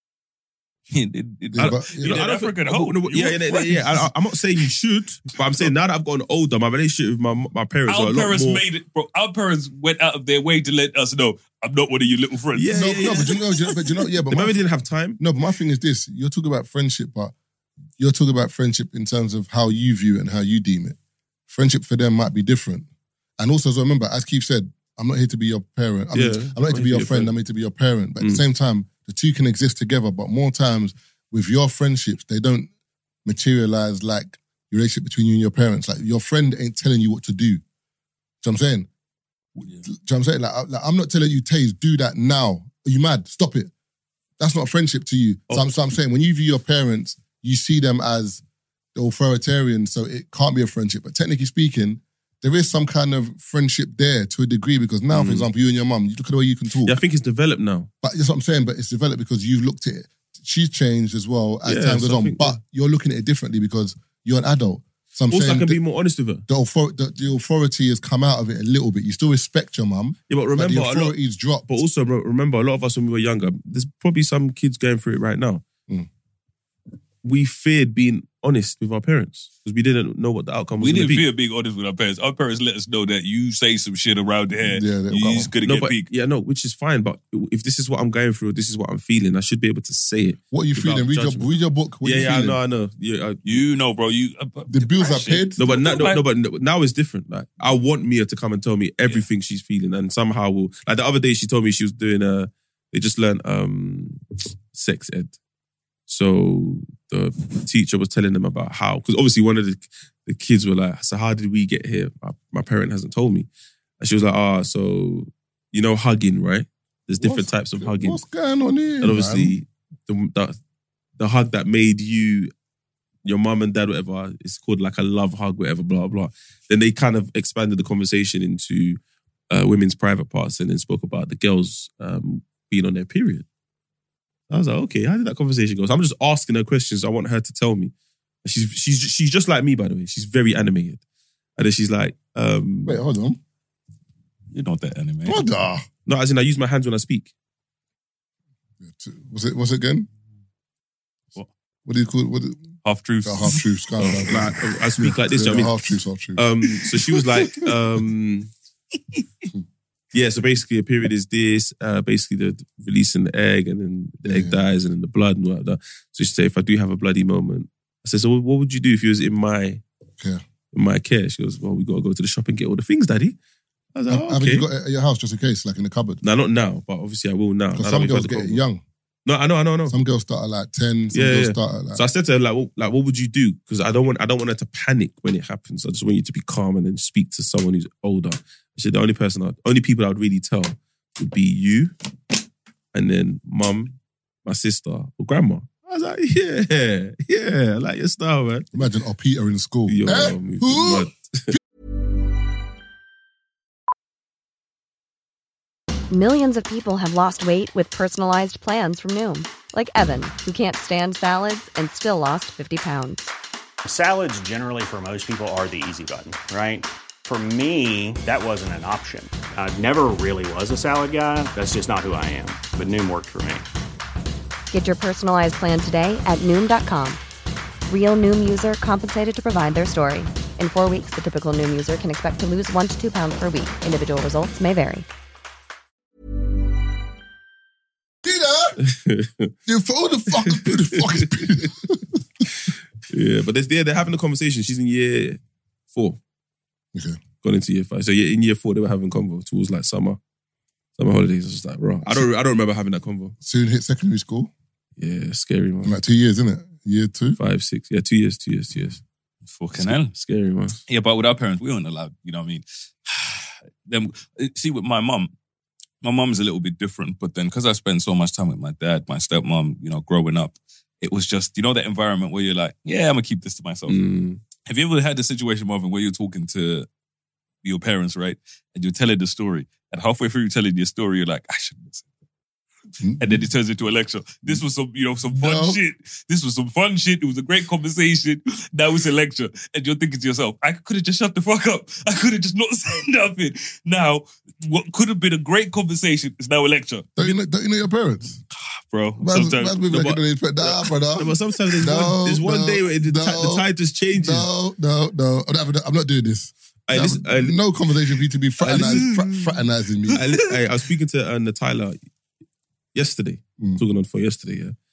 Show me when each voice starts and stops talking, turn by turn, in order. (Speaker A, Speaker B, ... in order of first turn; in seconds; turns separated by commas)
Speaker A: 0.9-4.1, Speaker B: 1.5-2.2, Speaker C: 1.6-8.6, Speaker A: 7.9-13.4, Speaker C: 12.5-13.3, Speaker B: 12.7-14.6, Speaker C: 14.3-15.2, Speaker B: 15.2-17.3, Speaker B: 18.0-21.0, Speaker B: 21.5-22.9, Speaker B: 23.4-32.7, Speaker C: 26.1-27.3, Speaker B: 33.2-37.6, Speaker B: 38.4-38.9, Speaker B: 39.6-43.7, Speaker B: 44.4-48.4, Speaker B: 48.9-57.0, Speaker C: 55.1-55.5, Speaker C: 56.8-57.9, Speaker B: 58.0-65.8, Speaker C: 61.6-62.6, Speaker C: 65.3-66.4, Speaker B: 66.5-71.7, Speaker C: 70.3-71.1, Speaker C: 71.7-75.6, Speaker C: 77.2-81.2, Speaker A: 80.8-86.1, Speaker B: 84.6-85.5, Speaker C: 85.6-91.5, Speaker B: 90.5-92.6, Speaker C: 92.0-93.6, Speaker A: 93.4-96.2, Speaker B: 94.7-95.6, Speaker C: 95.6-105.3, Speaker C: 106.1-113.5, Speaker C: 114.0-118.2, Speaker B: 117.2-119.5, Speaker C: 119.0-120.6, Speaker C: 121.2-122.5, Speaker C: 123.2-129.0, Speaker C: 129.5-133.4, Speaker C: 134.5-137.9, Speaker C: 138.4-141.0, Speaker C: 141.6-143.0, Speaker B: 142.8-143.4, Speaker A: 144.5-145.4, Speaker B: 145.2-145.8, Speaker C: 146.1-147.3, Speaker B: 148.8-150.1, Speaker B: 151.8-152.7, Speaker A: 152.8-153.6, Speaker B: 153.2-157.2, Speaker C: 154.0-155.7, Speaker C: 156.3-158.5, Speaker C: 160.1-169.8, Speaker B: 164.2-164.6, Speaker C: 170.7-173.3, Speaker C: 173.9-174.7, Speaker B: 174.1-176.2, Speaker C: 176.2-178.6, Speaker B: 177.7-178.8, Speaker C: 179.2-179.9, Speaker B: 179.9-182.0, Speaker C: 181.1-191.9, Speaker C: 192.9-198.7, Speaker B: 198.7-201.6, Speaker C: 199.9-201.6, Speaker D: 206.1-213.3, Speaker E: 213.8-223.7, Speaker D: 224.7-227.2, Speaker D: 227.9-235.0, Speaker B: 238.2-238.8, Speaker C: 238.8-239.5, Speaker B: 239.7-242.4, Speaker C: 240.5-241.3, Speaker C: 243.1-245.4, Speaker C: 245.9-246.2, Speaker B: 246.9-247.2, Speaker C: 247.4-250.2, Speaker C: 251.0-253.3, Speaker B: 253.4-254.5, Speaker C: 255.0-256.0, Speaker B: 255.8-257.4, Speaker C: 257.4-259.0, Speaker A: 259.5-260.1, Speaker C: 259.8-260.8, Speaker A: 260.9-265.3, Speaker A: 266.0-274.0, Speaker C: 273.9-274.4, Speaker A: 274.6-276.9, Speaker A: 277.6-282.0, Speaker B: 283.0-283.4, Speaker A: 283.2-297.3, Speaker B: 285.3-285.8, Speaker B: 297.2-298.4, Speaker A: 298.6-300.1, Speaker B: 299.2-310.2, Speaker C: 299.9-300.1, Speaker C: 301.2-304.5, Speaker C: 306.9-307.6, Speaker C: 308.6-309.4, Speaker C: 310.1-312.0, Speaker C: 312.9-314.7